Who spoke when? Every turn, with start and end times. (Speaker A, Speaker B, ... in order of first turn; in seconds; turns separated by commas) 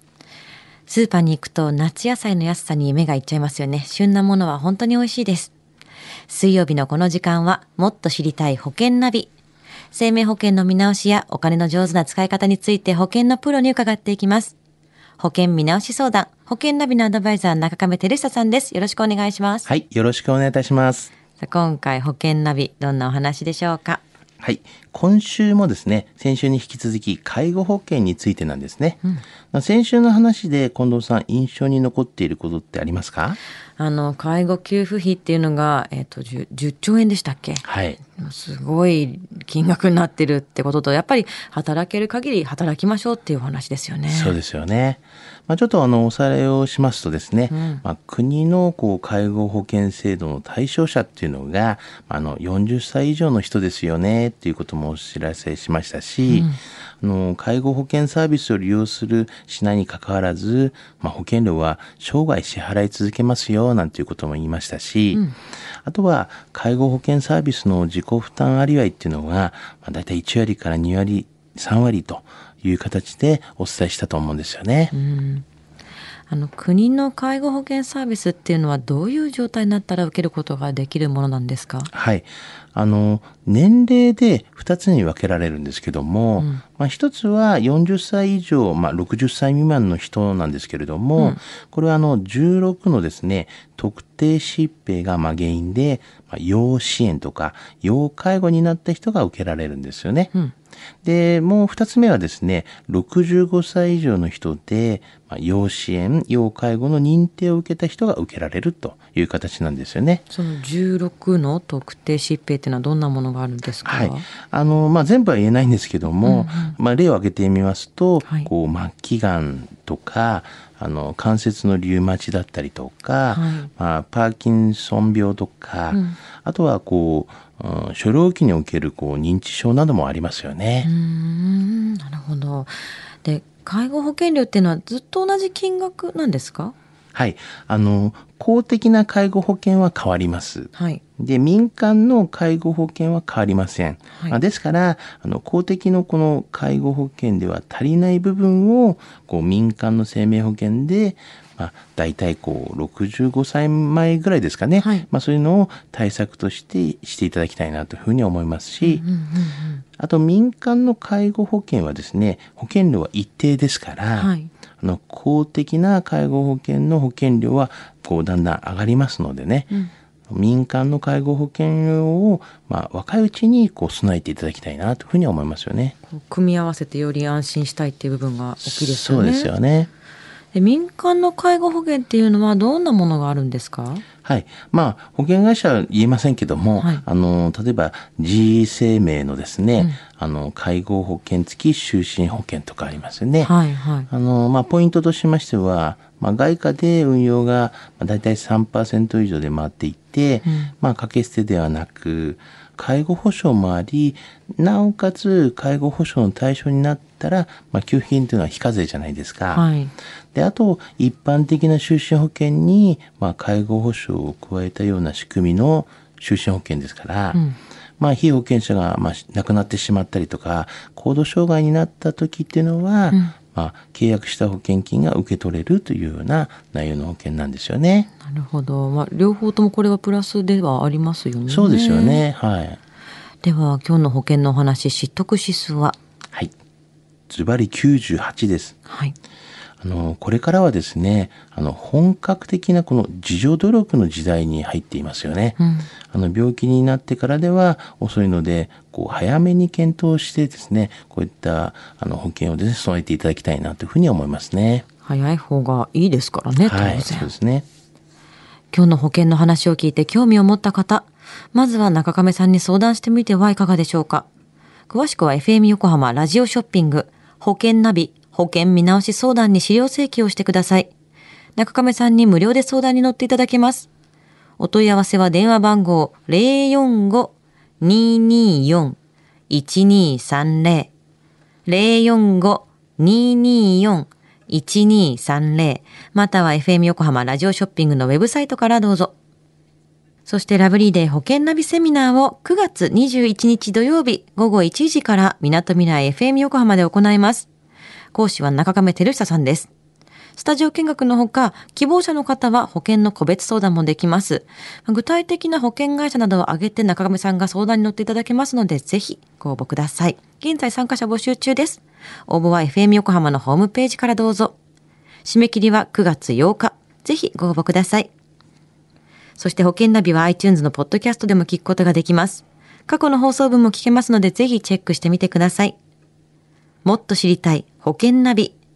Speaker A: 0.9-5.5, Speaker A: 6.3-9.3, Speaker A: 9.9-14.5, Speaker A: 15.2-19.6, Speaker B: 19.6-21.1, Speaker A: 21.4-24.0, Speaker B: 24.4-29.0, Speaker B: 29.5-33.4, Speaker A: 33.8-44.4, Speaker B: 37.6-38.0, Speaker B: 44.1-65.3, Speaker A: 47.5-47.8, Speaker A: 56.2-56.6, Speaker B: 65.8-74.9, Speaker A: 74.9-75.4, Speaker A: 76.3-81.9, Speaker B: 81.9-100.3, Speaker B: 101.0-110.2, Speaker A: 110.3-114.3, Speaker B: 113.8-130.9, Speaker A: 116.2-116.8, Speaker A: 118.2-118.5, Speaker A: 123.3-123.7, Speaker A: 125.9-126.2, Speaker A: 130.8-136.7, Speaker B: 137.1-159.0, Speaker A: 140.7-141.0, Speaker A: 144.1-144.4, Speaker A: 154.8-155.1, Speaker A: 158.8-159.8, Speaker B: 160.0-169.7, Speaker A: 164.2-164.5, Speaker B: 170.3-175.9, Speaker A: 176.1-179.5, Speaker B: 178.6-179.9, Speaker A: 180.5-184.0, Speaker B: 184.2-193.5, Speaker A: 186.8-187.0, Speaker A: 193.4-194.1, Speaker B: 194.1-209.6, Speaker A: 200.4-200.7, Speaker A: 209.5-209.9, Speaker B: 210.3-217.4, Speaker B: 218.0-228.1, Speaker A: 228.2-232.2, Speaker B: 231.5-232.8, Speaker A: 233.4-235.9, Speaker B: 237.3-238.8, Speaker A: 238.9-239.1, Speaker B: 239.8-245.6, Speaker A: 245.6-245.9, Speaker B: 246.1-254.8, Speaker A: 255.0-257.3, Speaker B: 256.6-257.6, Speaker A: 258.7-264.2, Speaker A: 264.9-270.9, Speaker A: 271.6-273.9, Speaker A: 274.6-279.0, Speaker A: 279.5-280.9, Speaker A: 281.6-289.1, Speaker A: 290.2-297.5, Speaker A: 298.1-299.7, Speaker A: 300.4-314.5, Speaker A: 315.2-318.1, Speaker A: 319.4-325.7, Speaker A: 326.8-328.5